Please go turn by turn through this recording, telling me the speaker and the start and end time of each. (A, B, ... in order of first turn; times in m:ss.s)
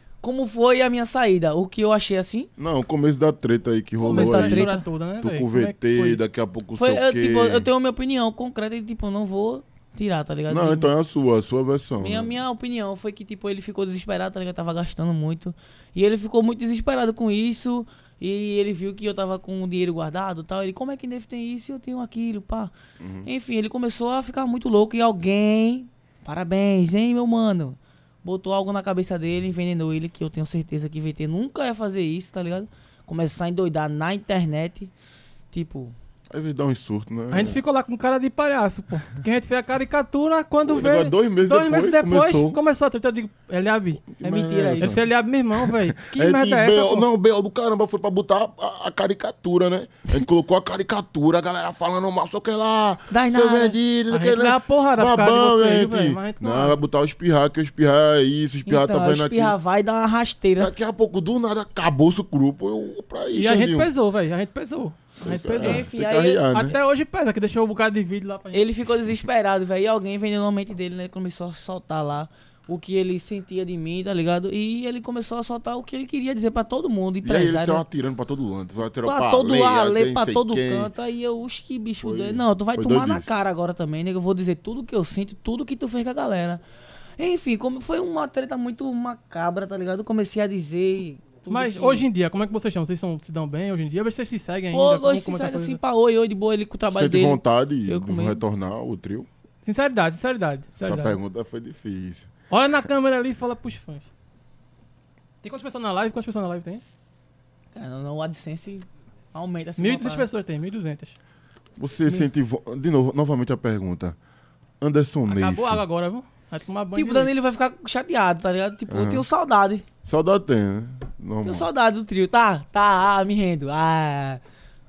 0:00.2-0:02.5 A
0:02.6-0:07.7 B
0:04.0-0:04.8 A
0:04.0-0:06.2 C
0:06.8-0:10.9 A
0:10.5-0:12.4 B
0:12.0-0:22.7 A
0:23.0-0:23.3 B
0:23.2-0:34.9 A
0:35.5-0:36.0 A
0:36.3-0:37.6 B
0:37.3-0:44.1 C
0:40.7-0:42.6 B
0:44.1-0:45.0 B
0:44.2-0:45.0 A
0:44.8-0:47.1 C
0:45.5-0:59.6 B
0:53.1-0:53.8 A
0:54.1-0:56.8 C
0:58.7-1:00.7 A
1:00.6-1:03.9 B
1:03.3-1:05.9 C
1:05.2-1:06.8 B
1:05.6-1:06.5 A
1:06.5-1:08.7 C
1:08.5-1:17.8 A
1:17.2-1:20.9 B
1:19.0-1:26.6 A
1:22.0-1:23.3 B
1:27.2-1:32.1 A
1:31.5-1:35.8 C
1:34.7-1:38.4 A
1:36.9-1:39.3 B
1:39.6-1:41.2 C
1:40.8-1:42.3 B
1:42.5-1:44.1 C
1:45.4-1:46.8 C
1:47.7-1:50.3 A
1:49.8-1:51.2 C
1:51.8-1:54.2 B
1:54.8-1:55.8 B
1:55.3-1:57.3 C
1:57.0-1:59.9 A
1:58.9-1:59.2 B
2:00.0-2:01.7 B
2:01.4-2:04.4 A